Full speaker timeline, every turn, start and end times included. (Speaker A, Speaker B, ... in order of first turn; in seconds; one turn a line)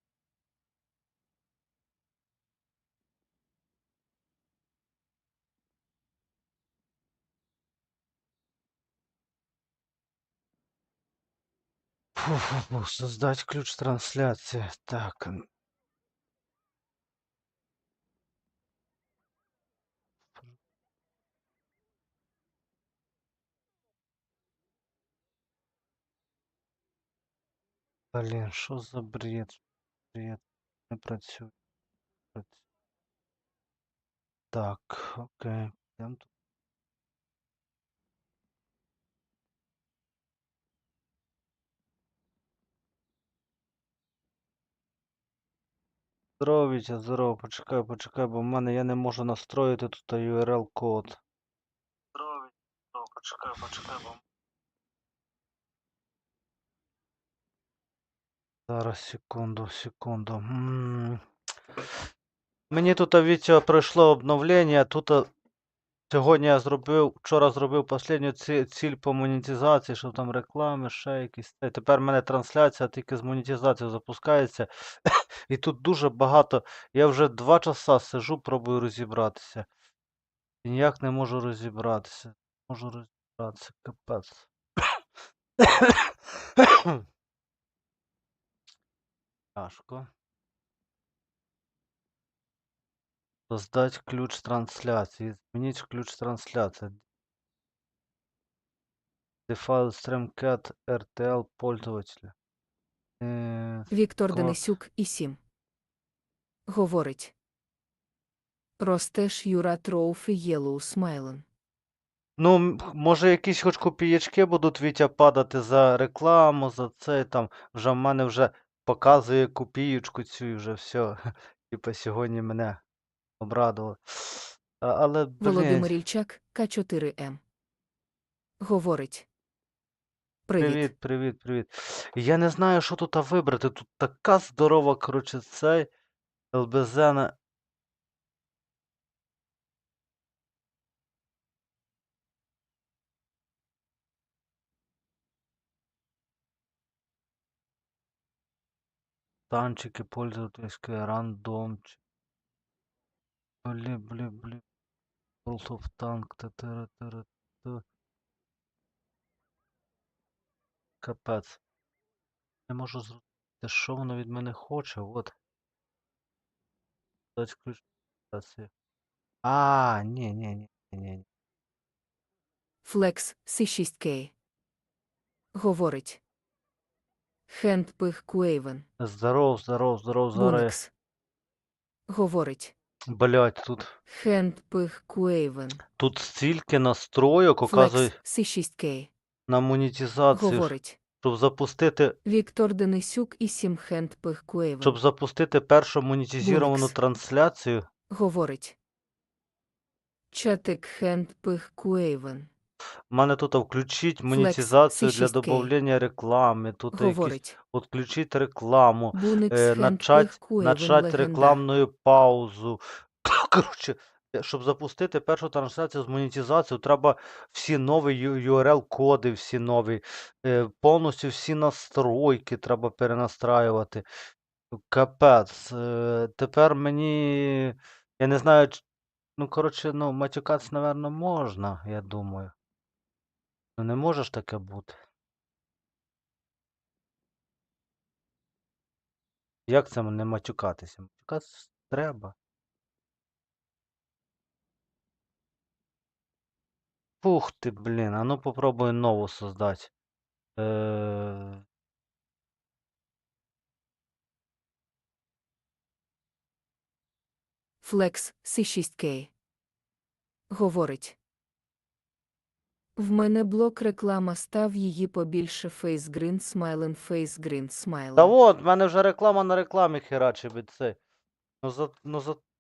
Speaker A: 12.2-15.5
Speaker A: 28.1-29.6
Speaker A: 30.1-31.5
Speaker A: 32.3-32.6
Speaker A: 34.5-36.3
Speaker A: 46.4-51.2
Speaker A: 52.1-54.2
Speaker A: 58.7-61.2
Speaker A: 62.7-65.3
Speaker A: 66.1-79.7
Speaker A: 80.6-84.9
Speaker A: 85.6-87.0
Speaker A: 89.6-90.1
Speaker A: 93.5-97.0
Speaker A: 99.5-102.3
Speaker A: 103.2-104.6
Speaker B: 103.9-105.4
Speaker B: 106.7-107.3
Speaker B: 108.8-111.4
Speaker A: 112.4-122.8
Speaker A: 123.4-126.0
Speaker B: 125.4-127.4
Speaker B: 128.6-129.3
Speaker B: 130.5-130.9
Speaker A: 130.6-135.9
Speaker A: 136.5-137.3
Speaker A: 149.5-152.0
Speaker A: 153.6-154.6
Speaker A: 155.4-157.8
Speaker A: 161.0-161.6
Speaker A: 162.7-165.3
Speaker A: 167.3-168.7
Speaker A: 169.4-171.2
Speaker B: 172.8-174.3
Speaker B: 175.5-176.2
Speaker B: 177.5-178.8
Speaker A: 179.0-180.8
Speaker B: 180.3-180.9
Speaker B: 182.1-182.7
Speaker A: 183.1-184.0
Speaker B: 184.1-185.8
Speaker A: 186.0-188.2
Speaker B: 187.7-189.1
Speaker A: 189.5-192.2
Speaker B: 190.3-191.0
Speaker B: 192.2-195.0
Speaker A: 194.8-197.9
Speaker B: 196.4-196.9
Speaker B: 198.1-198.8
Speaker B: 200.3-202.5
Speaker A: 203.1-224.1
Speaker B: 204.3-205.7
Speaker B: 206.9-207.6
Speaker B: 209.1-211.6
Speaker A: 224.7-228.8
Speaker A: 229.4-232.5
Speaker A: 233.8-235.0
Speaker A: 239.7-242.3
Speaker A: 247.2-249.9
Speaker A: 250.6-251.6
Speaker B: 257.8-259.3
Speaker B: 260.5-261.2
Speaker B: 263.0-268.4
Speaker A: 268.1-271.0
Speaker A: 271.6-272.4